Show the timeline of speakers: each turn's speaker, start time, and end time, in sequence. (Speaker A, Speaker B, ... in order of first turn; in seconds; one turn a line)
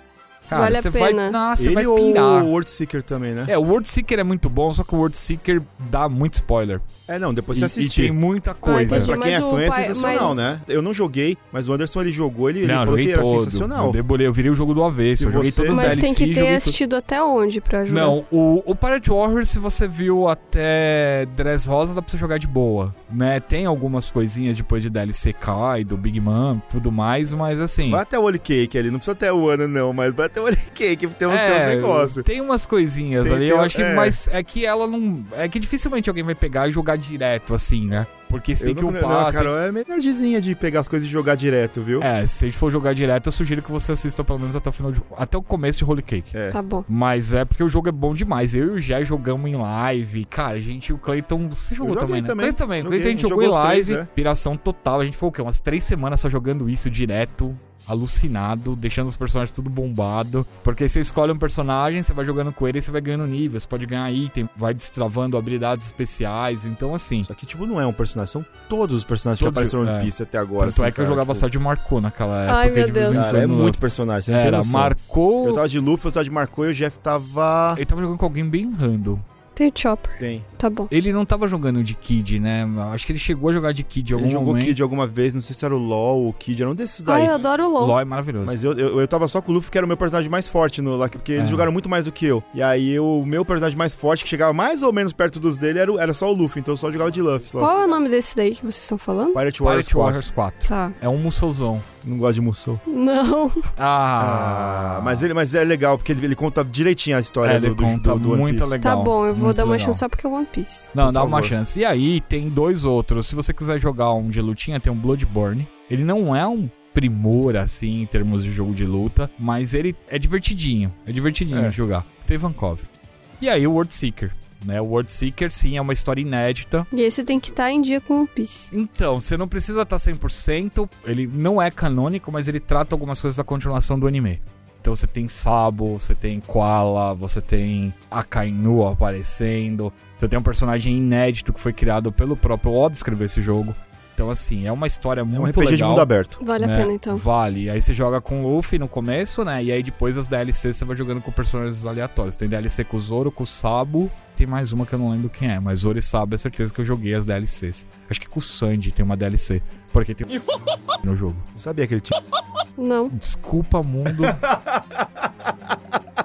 Speaker A: 0.5-2.5
Speaker B: 0.5-1.4
Speaker C: 1.6-3.5
Speaker A: 3.5-6.8
Speaker C: 7.1-8.2
Speaker A: 7.5-9.1
Speaker B: 8.6-10.4
Speaker C: 8.9-14.0
Speaker A: 12.6-16.7
Speaker C: 15.1-16.0
Speaker B: 15.7-18.2
Speaker A: 17.9-28.0
Speaker C: 27.9-32.2
Speaker A: 31.3-39.5
Speaker C: 33.2-34.2
Speaker C: 38.6-42.1
Speaker A: 42.0-46.3
Speaker C: 46.3-46.6
Speaker B: 46.5-46.9
Speaker A: 46.9-67.3
Speaker C: 51.8-54.1
Speaker C: 67.3-71.5
Speaker A: 69.4-75.6
Speaker B: 72.5-73.3
Speaker C: 73.1-77.8
Speaker A: 77.8-79.2
Speaker B: 79.5-80.9
Speaker C: 80.2-80.5
Speaker A: 80.9-84.8
Speaker C: 84.1-87.3
Speaker B: 87.1-88.0
Speaker A: 87.8-88.6
Speaker C: 88.4-97.7
Speaker A: 91.3-91.7
Speaker B: 97.6-99.4
Speaker C: 99.3-100.3
Speaker A: 99.6-101.8
Speaker B: 100.6-100.9
Speaker C: 102.0-102.8
Speaker B: 102.9-103.7
Speaker A: 103.8-105.3
Speaker C: 104.2-108.7
Speaker A: 107.4-110.0
Speaker B: 108.8-110.9
Speaker A: 110.9-122.9
Speaker C: 111.0-111.5
Speaker C: 121.5-121.8
Speaker A: 123.4-126.9
Speaker B: 126.9-128.7
Speaker A: 128.7-160.4
Speaker C: 145.3-146.4
Speaker B: 146.4-147.2
Speaker A: 161.0-161.4
Speaker C: 161.5-162.1
Speaker B: 162.8-163.1
Speaker A: 163.1-164.4
Speaker C: 164.1-165.3